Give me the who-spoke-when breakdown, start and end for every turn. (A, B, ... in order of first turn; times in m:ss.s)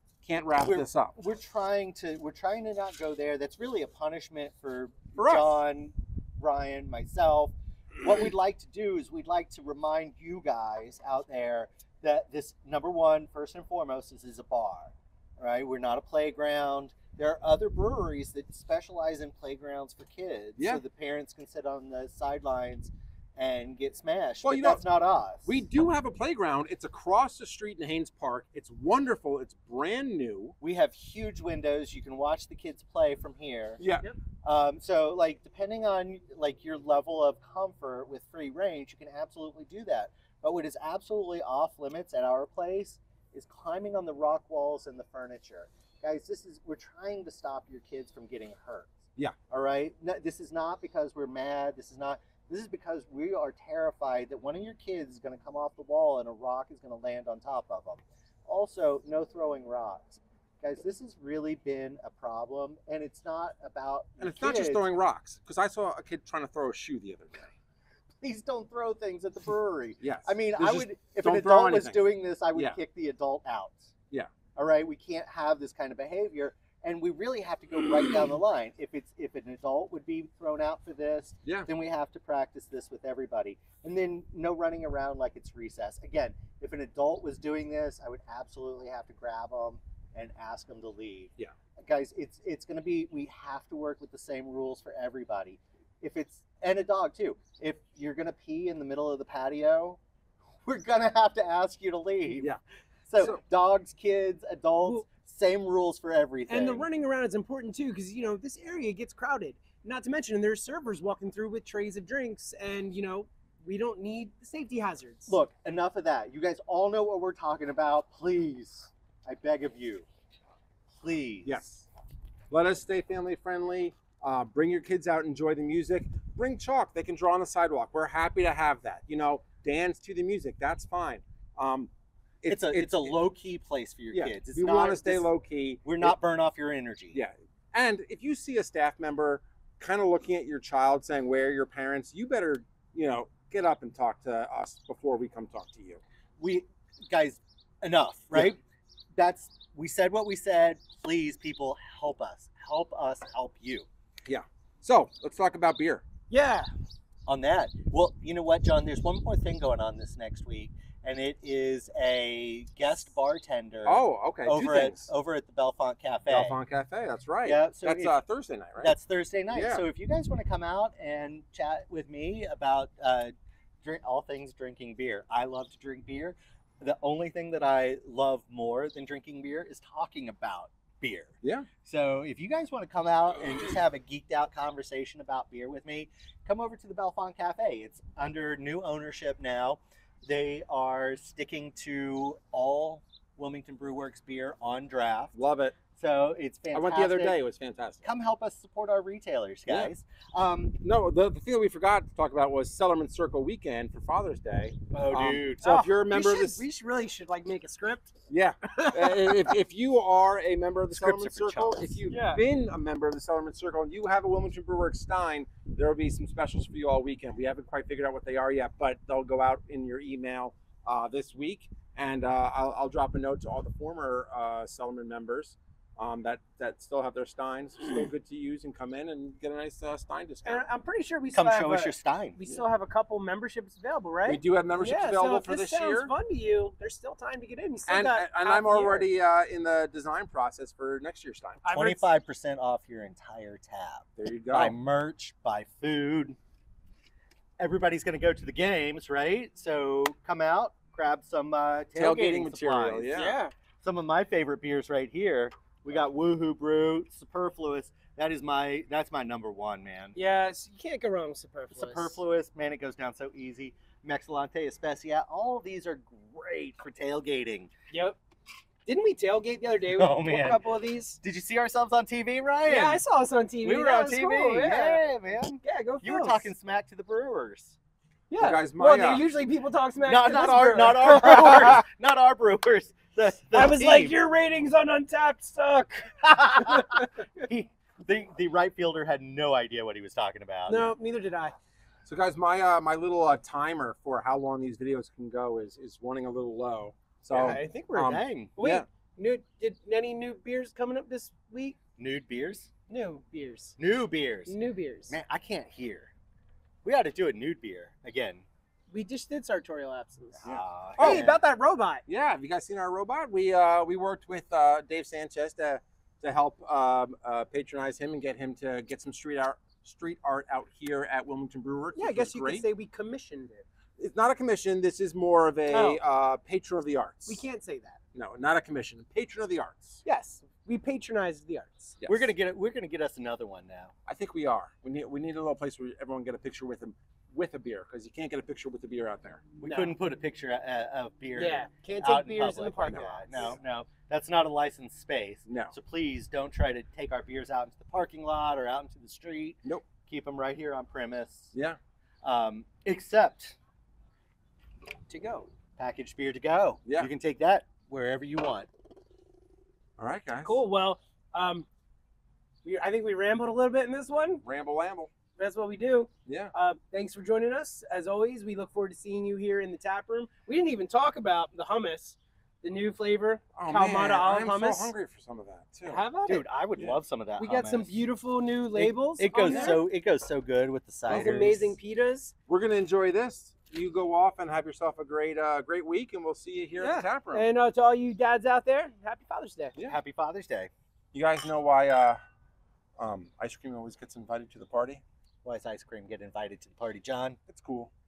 0:00.2-0:01.1 A
0:00.6-0:25.6 B
0:05.2-0:05.6 A
0:20.6-0:20.8 A
0:24.4-0:30.6 A
0:30.6-0:33.8 B
0:34.4-1:04.8 B
1:04.2-1:07.5 A
1:08.2-1:13.9 B
1:10.0-1:12.8 A
1:14.6-1:40.0 B
1:40.6-1:42.5 B
1:43.1-1:46.9 B
1:46.5-1:55.4 C
1:55.3-2:00.1 B
2:00.9-2:01.6 B
2:01.4-2:01.9 A
2:02.5-2:11.9 A
2:12.4-2:13.2 A
2:12.5-2:15.3 B
2:14.1-2:16.2 A
2:15.8-2:17.2 B
2:17.1-2:26.0 A
2:26.4-2:28.6 B
2:29.2-2:33.9 B
2:34.3-2:36.0 A
2:36.3-2:36.7 C
2:37.3-2:46.6 B
2:43.8-2:45.1 A
2:46.3-2:49.0 A
2:47.4-2:48.2 B
2:48.8-3:15.4 B
2:49.5-2:49.8 A
3:01.4-3:01.7 A
3:15.3-3:15.8 A
3:16.0-3:17.4 B
3:16.7-3:18.1 A
3:18.0-3:20.8 B
3:19.7-3:19.9 A
3:20.8-3:26.6 A
3:24.9-3:25.6 B
3:25.6-3:28.2 C
3:28.3-3:50.6 A
3:28.7-3:29.4 C
3:30.9-3:32.0 B
3:32.1-3:32.4 C
3:50.4-3:59.1 C
3:51.3-3:52.4 B
3:54.3-3:56.1 A
3:57.9-4:01.6 A
4:01.6-4:02.1 C
4:01.7-4:06.4 B
4:04.2-4:04.8 A
4:07.6-4:13.2 B
4:12.0-4:13.4 A
4:13.1-4:13.5 C
4:13.8-4:20.2 B
4:20.2-4:22.2 C
4:21.7-4:27.7 B
4:27.9-4:28.2 C
4:28.9-4:31.2 C
4:29.9-4:30.6 B
4:31.2-4:33.0 B
4:32.7-4:35.1 C
4:33.6-4:37.8 B
4:35.6-4:36.5 C
4:38.3-4:41.8 C
4:38.4-4:39.3 A
4:40.0-4:44.2 B
4:43.5-4:47.1 C
4:46.4-4:50.9 B
4:50.7-4:51.6 C
4:52.1-4:58.8 A
4:57.3-5:01.8 C
4:57.3-4:58.5 B
5:02.0-5:02.7 B
5:02.9-5:03.8 C
5:03.8-5:04.6 B
5:04.5-5:05.2 C
5:05.1-5:06.1 B
5:06.8-5:08.4 B
5:08.9-5:10.4 C
5:10.4-5:11.4 B
5:10.4-5:11.4 A
5:11.0-5:12.0 C
5:12.1-5:22.7 A
5:22.0-5:23.6 C
5:24.0-5:27.4 A
5:25.7-5:26.0 C
5:27.3-5:28.0 C
5:28.2-5:30.0 A
5:30.0-5:32.0 C
5:32.0-5:32.3 A
5:32.1-5:33.9 B
5:34.1-5:39.4 A
5:39.6-5:51.5 B
5:39.6-5:40.0 C
5:41.3-5:43.6 C
5:45.5-5:45.7 A
5:52.2-5:53.6 B
5:55.1-5:55.5 C
5:55.8-5:58.7 B
6:00.0-6:00.6 A
6:00.3-6:01.7 C
6:02.6-6:04.4 C
6:04.4-6:05.1 A
6:05.4-6:14.9 C
6:06.3-6:06.5 A
6:13.6-6:16.1 A
6:15.8-6:16.5 C
6:16.3-6:18.0 B
6:17.4-6:19.9 C
6:18.7-6:21.8 B
6:19.3-6:19.8 A
6:21.1-6:21.4 A
6:21.1-6:22.3 C
6:22.5-6:27.5 A
6:26.8-6:29.8 C
6:29.9-6:30.7 B
6:31.1-6:32.2 A
6:33.0-6:35.0 A
6:35.4-6:37.4 B
6:37.5-6:37.9 A